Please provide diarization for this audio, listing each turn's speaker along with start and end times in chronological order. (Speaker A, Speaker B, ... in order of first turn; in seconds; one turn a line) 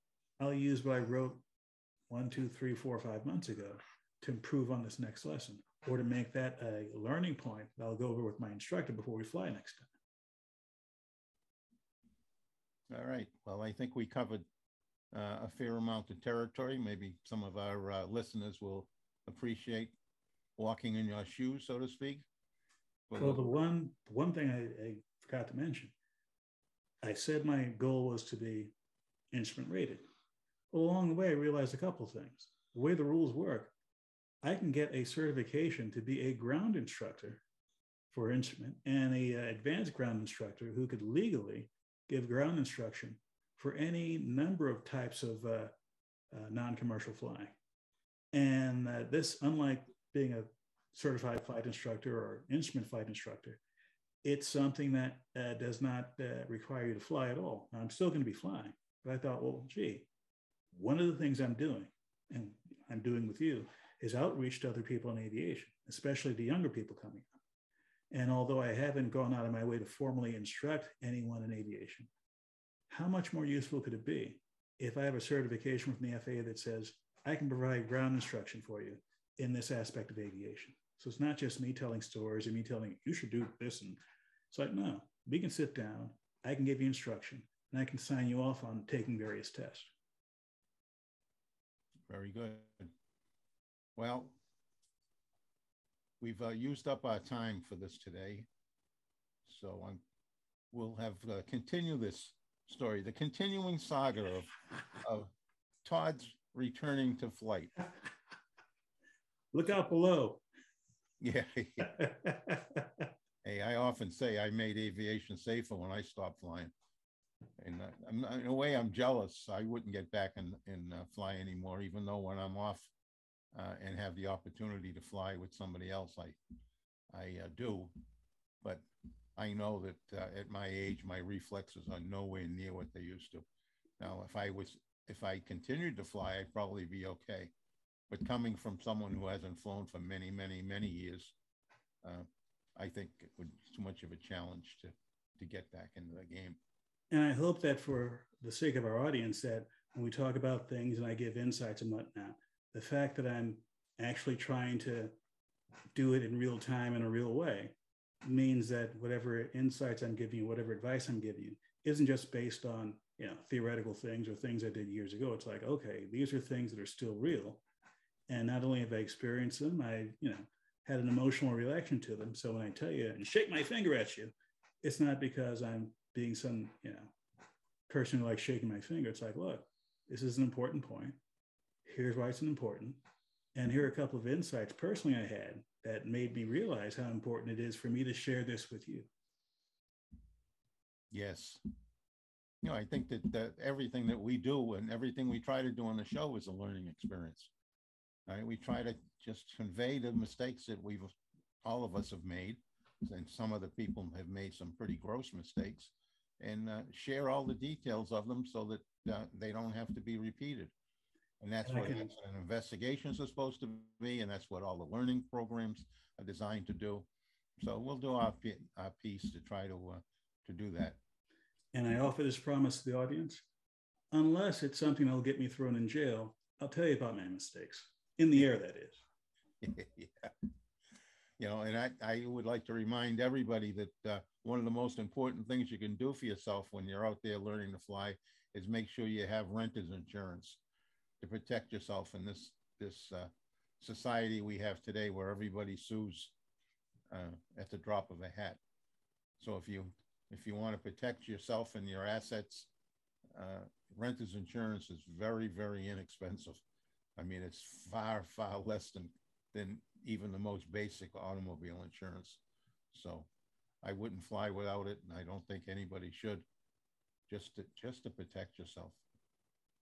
Speaker A: 0.4-1.4
Speaker A: 2.1-9.9
Speaker B: 12.9-14.4
Speaker B: 15.1-19.9
Speaker B: 20.6-22.2
Speaker B: 23.1-23.5
Speaker A: 23.1-25.9
Speaker A: 27.0-28.7
Speaker A: 29.3-30.0
Speaker A: 30.7-33.7
Speaker A: 34.4-37.4
Speaker A: 38.1-45.7
Speaker A: 46.3-47.5
Speaker A: 48.3-53.6
Speaker A: 54.2-60.1
Speaker A: 60.7-67.3
Speaker A: 68.1-72.1
Speaker A: 72.9-84.0
Speaker A: 84.5-89.9
Speaker B: 92.1-92.9
Speaker B: 94.0-94.4
Speaker B: 96.2-98.5
Speaker B: 99.4-100.0
Speaker B: 100.7-105.3
Speaker B: 105.8-107.8
Speaker A: 109.5-110.4
Speaker B: 111.2-111.9
Speaker A: 111.9-112.8
Speaker B: 113.4-116.7
Speaker B: 117.6-122.9
Speaker B: 123.5-126.4
Speaker B: 127.1-127.9
Speaker B: 129.3-133.4
Speaker B: 134.0-137.5
Speaker B: 138.1-141.3
Speaker B: 142.0-146.6
Speaker A: 147.1-155.1
Speaker A: 155.9-167.6
Speaker A: 168.3-177.1
Speaker A: 177.9-181.2
Speaker A: 181.8-183.0
Speaker A: 183.5-189.1
Speaker B: 191.1-191.6
Speaker B: 192.6-197.5
Speaker B: 198.3-210.7
Speaker B: 211.4-217.1
Speaker A: 211.6-212.1
Speaker B: 217.6-221.0
Speaker A: 221.7-223.4
Speaker A: 224.1-229.0
Speaker B: 229.6-230.3
Speaker B: 231.4-240.6
Speaker B: 241.2-246.3
Speaker B: 247.1-248.6
Speaker B: 249.4-252.7
Speaker B: 253.3-256.6
Speaker B: 257.2-263.3
Speaker B: 263.8-266.4
Speaker B: 267.3-269.0